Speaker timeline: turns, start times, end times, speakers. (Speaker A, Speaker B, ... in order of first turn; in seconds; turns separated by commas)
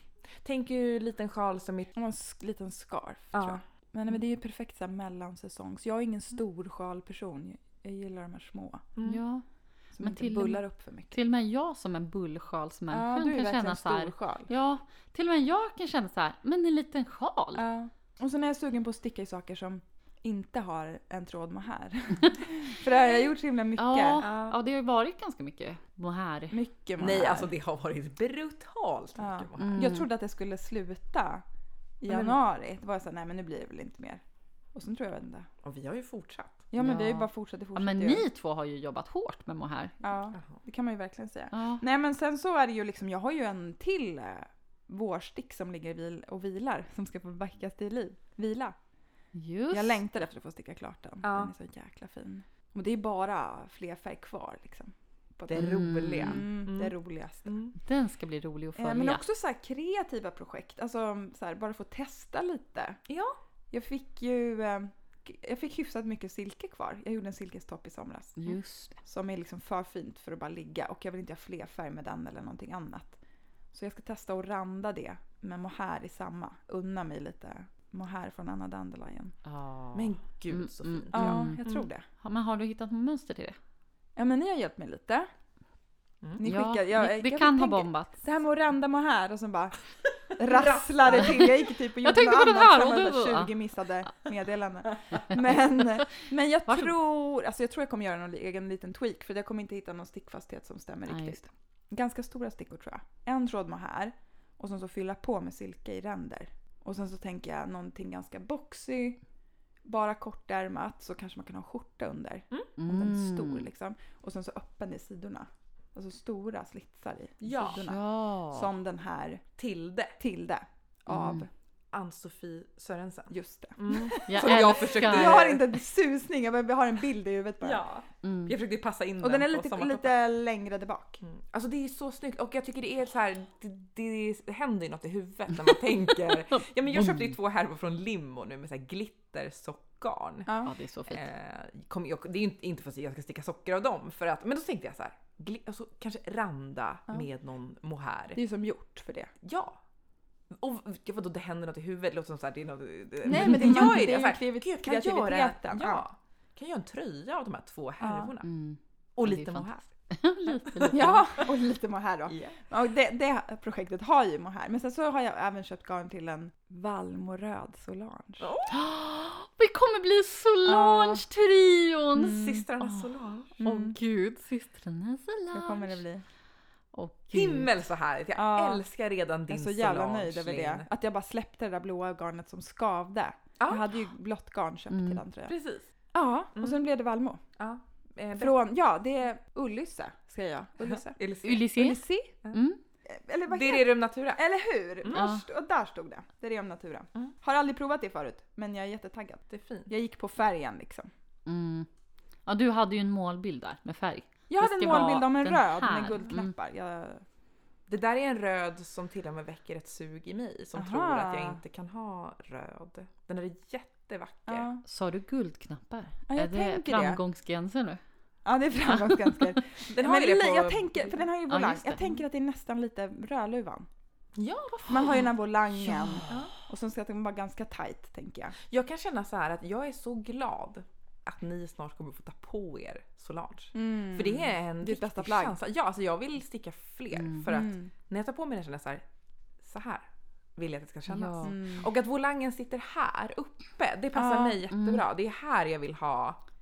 Speaker A: 0.4-1.9, Speaker B: 1.9-8.8, Speaker C: 9.0-9.4, Speaker B: 9.9-11.2, Speaker C: 10.0-10.6, Speaker C: 11.1-17.6, Speaker B: 12.9-14.5, Speaker B: 17.6-24.3, Speaker C: 23.8-26.6, Speaker A: 24.2-24.5, Speaker B: 26.5-27.5, Speaker A: 27.0-29.9, Speaker B: 29.2-31.4, Speaker C: 29.6-30.1, Speaker B: 32.0-34.2, Speaker A: 32.1-32.4, Speaker B: 34.7-35.5, Speaker A: 35.6-36.6, Speaker B: 36.7-38.2, Speaker C: 36.8-40.0, Speaker B: 40.0-48.7, Speaker C: 41.5-41.8, Speaker C: 49.3-50.0, Speaker B: 49.7-57.5, Speaker A: 51.2-51.5, Speaker A: 55.5-56.9, Speaker C: 55.5-56.4, Speaker A: 57.5-57.8, Speaker C: 57.8-59.2, Speaker B: 58.8-63.0, Speaker A: 63.1-63.4, Speaker B: 63.7-68.5, Speaker C: 68.4-69.0, Speaker B: 69.0-73.2, Speaker B: 73.7-79.3, Speaker C: 79.4-81.6, Speaker A: 79.9-81.9, Speaker B: 81.1-82.0, Speaker C: 82.2-83.6, Speaker B: 84.2-85.3, Speaker B: 86.4-109.2, Speaker C: 86.4-88.1, Speaker A: 90.4-91.5, Speaker C: 91.1-93.5, Speaker C: 95.1-96.9, Speaker C: 101.0-101.5, Speaker B: 109.8-119.4, Speaker C: 112.8-113.7, Speaker A: 117.4-117.8, Speaker C: 117.7-118.7, Speaker A: 119.6-120.1, Speaker B: 120.2-121.5, Speaker C: 121.1-121.5, Speaker A: 121.9-125.7, Speaker B: 123.3-127.8, Speaker C: 124.3-125.5, Speaker A: 127.6-130.1, Speaker C: 128.2-128.5, Speaker B: 129.2-131.2, Speaker A: 131.2-140.5, Speaker C: 136.5-137.3, Speaker B: 140.4-140.7, Speaker C: 140.6-141.2, Speaker A: 141.1-148.4, Speaker B: 148.3-149.3, Speaker A: 149.4-149.8, Speaker A: 150.5-158.5, Speaker B: 153.2-156.0, Speaker C: 153.3-154.0, Speaker B: 158.0-158.3, Speaker C: 158.4-161.2, Speaker A: 159.2-159.8, Speaker A: 160.6-161.4, Speaker B: 160.9-168.5, Speaker A: 162.3-162.6, Speaker A: 168.4-168.8, Speaker C: 168.7-172.4, Speaker A: 170.7-171.0, Speaker B: 172.2-173.1, Speaker A: 172.2-173.6, Speaker B: 173.6-174.0, Speaker C: 173.6-176.0, Speaker B: 175.5-176.2, Speaker C: 176.9-177.7, Speaker A: 177.3-180.9, Speaker B: 178.3-178.8, Speaker B: 179.5-185.5, Speaker A: 183.6-183.9, Speaker C: 184.9-185.2, Speaker A: 185.4-185.9, Speaker B: 186.1-187.4, Speaker A: 187.6-188.5, Speaker B: 188.4-192.4, Speaker A: 190.9-191.7, Speaker C: 191.4-192.0, Speaker C: 192.5-192.8, Speaker B: 193.1-201.1, Speaker A: 193.5-194.4, Speaker A: 195.0-195.3, Speaker C: 195.1-195.4, Speaker A: 199.5-199.9, Speaker C: 201.4-201.9, Speaker C: 202.4-206.5, Speaker B: 204.5-207.2, Speaker A: 207.9-214.7, Speaker B: 210.8-211.6, Speaker B: 214.5-214.8, Speaker C: 214.8-218.0, Speaker B: 216.3-217.2, Speaker B: 218.4-223.9, Speaker C: 218.8-219.6, Speaker A: 219.9-221.2, Speaker C: 221.5-222.2, Speaker A: 224.3-225.3, Speaker B: 224.9-228.6, Speaker C: 225.7-226.3, Speaker A: 228.6-239.0, Speaker B: 233.7-235.6, Speaker C: 237.1-237.5, Speaker B: 237.5-237.9, Speaker A: 239.6-246.4, Speaker C: 241.1-241.6, Speaker B: 241.4-241.9, Speaker B: 244.1-244.7, Speaker C: 244.7-245.0